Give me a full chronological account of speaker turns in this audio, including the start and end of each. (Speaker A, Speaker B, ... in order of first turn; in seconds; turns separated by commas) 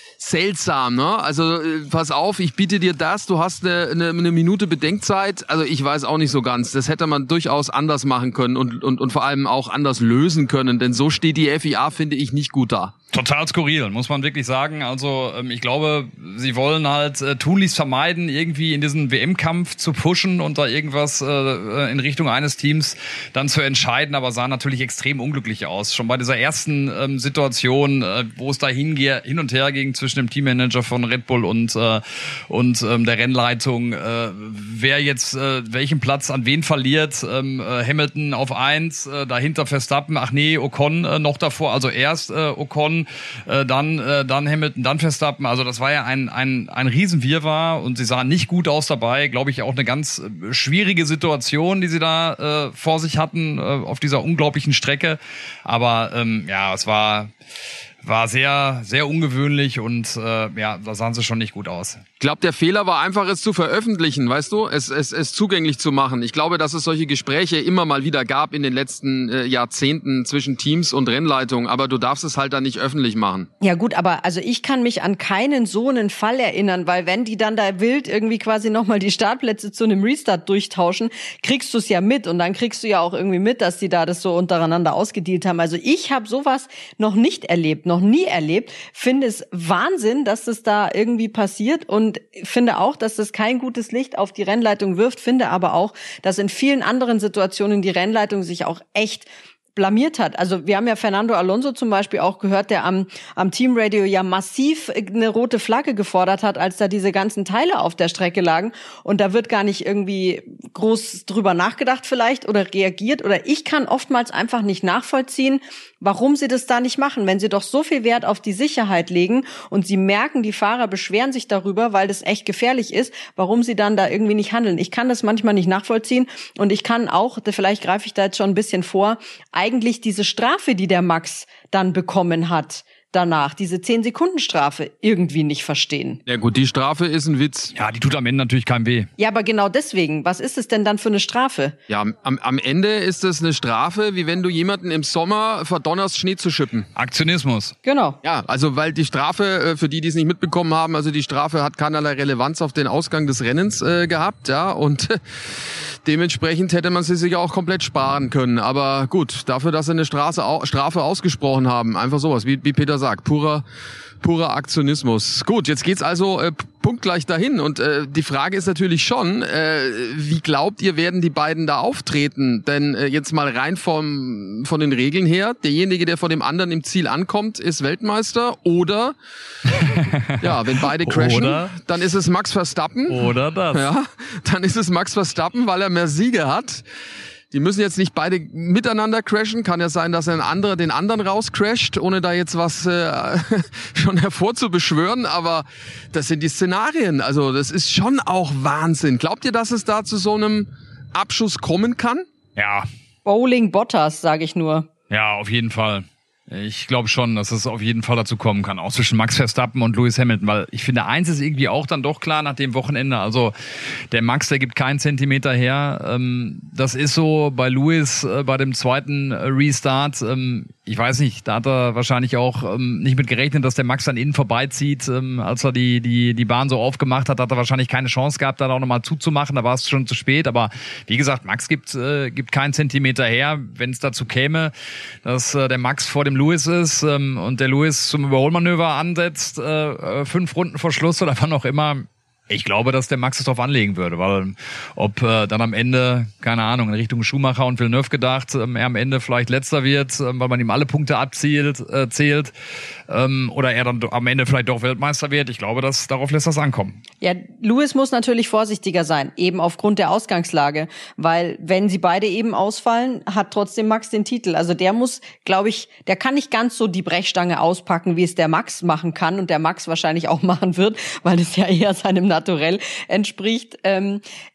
Speaker A: 0.2-12.9, Speaker B: 13.1-57.3, Speaker B: 58.0-62.0, Speaker A: 62.2-73.5, Speaker C: 73.6-136.2, Speaker A: 136.3-137.7, Speaker B: 137.8-139.1, Speaker C: 139.2-141.8, Speaker A: 141.9-146.9, Speaker B: 147.0-147.8, Speaker C: 147.8-148.2, Speaker A: 148.2-163.6, Speaker A: 164.2-179.2, Speaker B: 179.7-181.8, Speaker A: 180.4-186.8, Speaker B: 183.1-183.8, Speaker A: 187.5-202.3, Speaker B: 202.6-202.9, Speaker C: 203.2-204.9, Speaker B: 205.1-234.7, Speaker B: 235.2-252.5, Speaker B: 253.1-257.0, Speaker C: 257.2-274.2